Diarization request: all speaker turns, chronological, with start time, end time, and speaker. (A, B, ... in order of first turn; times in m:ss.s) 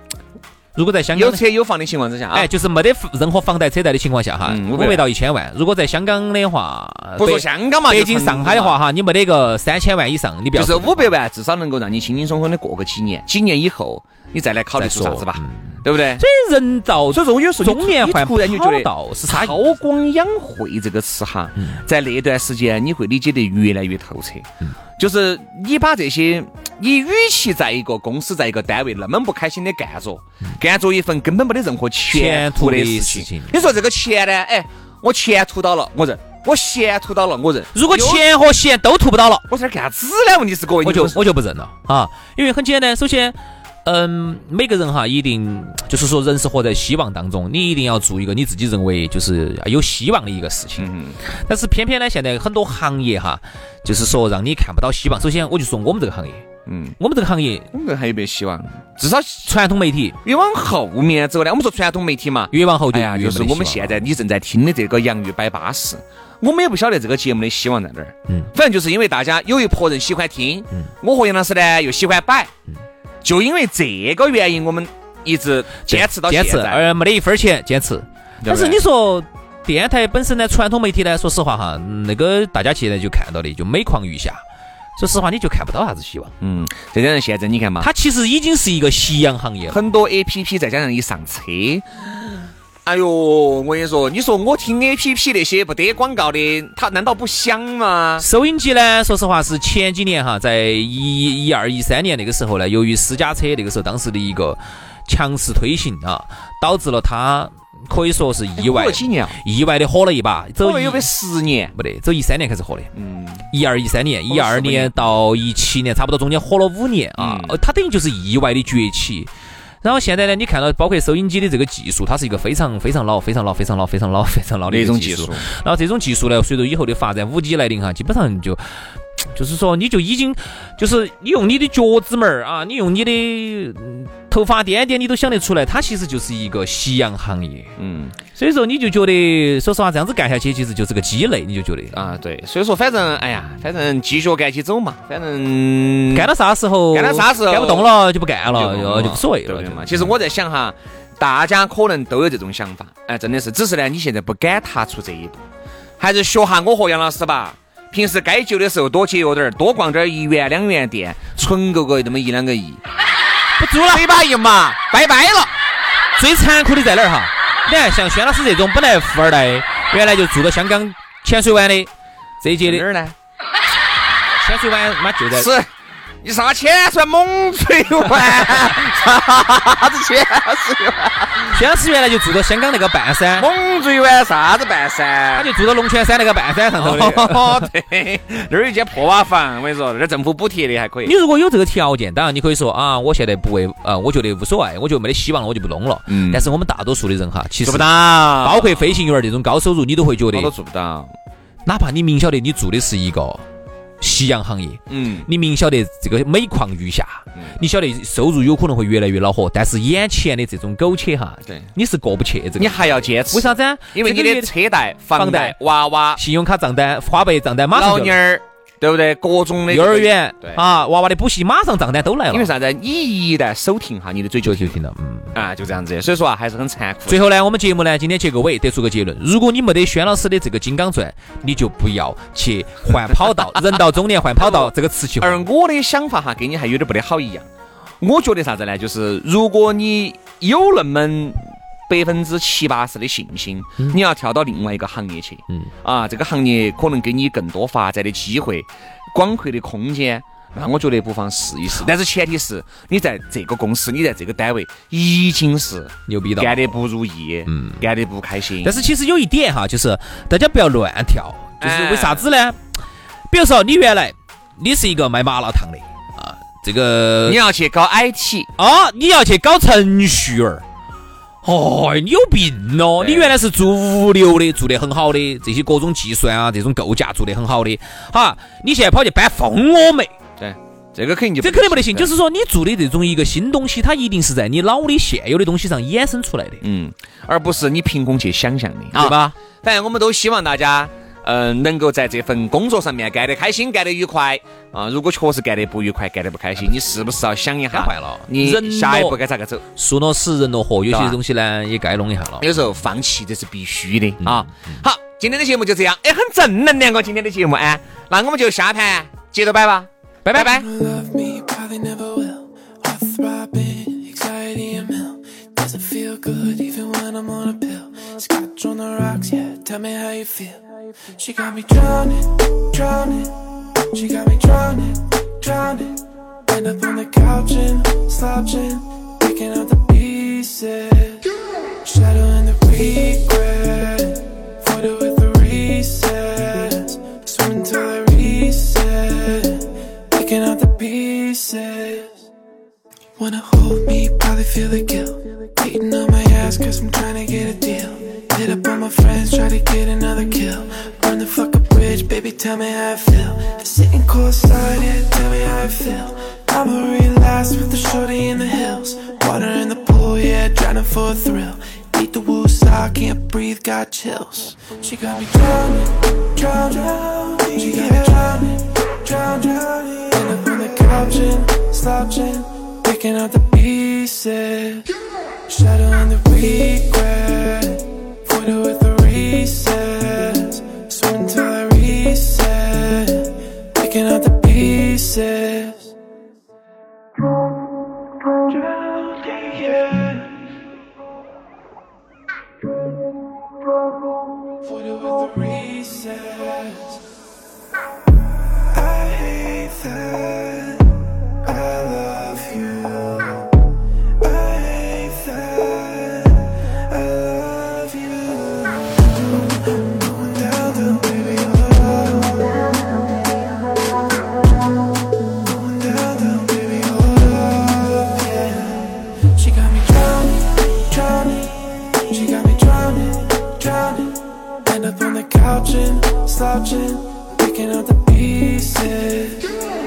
0:00.8-0:01.4 A
0:01.1-0:02.5 B
0:02.3-0:11.1 A
0:04.4-0:05.1 B
0:07.2-0:08.8 B
0:10.6-0:16.2 B
0:14.8-0:19.6 A
0:17.1-0:38.2 B
0:32.1-0:33.7 A
0:37.7-0:39.5 A
0:39.5-0:41.2 B
0:40.8-0:56.4 A
0:50.8-0:51.2 B
0:56.6-0:57.0 B
0:57.0-0:57.7 A
0:57.7-0:59.6 B
0:59.5-1:00.2 A
1:00.2-1:12.5 B
1:02.5-1:04.1 A
1:13.2-1:16.9 B
1:15.9-1:24.4 A
1:18.4-1:18.8 B
1:25.0-1:26.3 A
1:26.4-1:27.9 B
1:27.8-1:29.8 A
1:29.7-1:31.9 B
1:32.8-1:38.2 B
1:38.2-1:51.1 A
1:48.6-1:49.4 B
1:50.6-1:51.7 B
1:51.7-1:52.9 A
1:53.0-1:53.4 B
1:53.5-1:59.3 A
1:54.3-1:55.0 B
1:57.2-1:57.6 B
1:59.8-2:08.6 A
2:04.7-2:05.5 B
2:09.3-2:17.7 A
2:17.8-2:18.2 B
2:18.4-2:22.0 A
2:21.9-2:26.3 B
2:26.1-2:30.1 A
2:26.9-2:27.9 B
2:28.5-2:35.4 B
2:36.0-2:42.8 B
2:43.6-2:44.1 A
2:43.9-2:45.5 B
2:46.2-2:51.9 A
2:52.4-2:52.8 A
2:52.6-2:53.1 B
2:54.4-2:55.5 A
2:55.3-2:55.7 B
2:56.2-3:01.5 B
3:01.5-3:03.5 A
3:03.4-3:05.5 B
3:05.3-3:07.7 A
3:06.8-3:11.1 B
3:11.0-3:20.5 A
3:16.1-3:16.5 B
3:17.6-3:19.0 B
3:20.3-3:21.1 B
3:21.6-3:23.4 A
3:24.0-3:34.5 A
3:24.9-3:25.3 B
3:32.6-3:36.2 B
3:35.2-3:35.6 A
3:36.1-3:38.2 A
3:37.7-3:40.6 B
3:39.7-3:42.5 A
3:42.3-3:44.8 B
3:44.4-3:45.3 A
3:45.3-3:47.2 B
3:47.1-3:55.4 A
3:54.4-3:57.5 B
3:58.0-4:18.8 B
4:16.1-4:16.8 A
4:17.5-4:17.8 A
4:18.6-4:22.6 A
4:21.6-4:22.3 B
4:23.3-4:27.4 A
4:27.3-4:28.5 B
4:28.6-4:30.6 A
4:31.4-4:40.1 A
4:33.0-4:33.3 B
4:40.4-4:42.1 B
4:41.4-4:46.6 A
4:46.6-4:59.6 B
4:48.9-4:49.3 A
4:57.7-4:59.2 A
4:59.8-5:02.5 A
5:00.9-5:01.2 B
5:02.4-5:10.7 B
5:10.2-5:10.6 A
5:10.5-5:20.6 C
5:21.2-5:31.3 C
5:31.8-5:42.2 C
5:43.2-6:14.9 C
6:15.5-6:25.9 C
6:28.5-6:30.3 C
6:34.6-6:37.0 C
6:38.7-6:43.5 C
6:44.2-6:48.9 C
6:49.7-6:52.7 C
6:55.4-7:09.6 C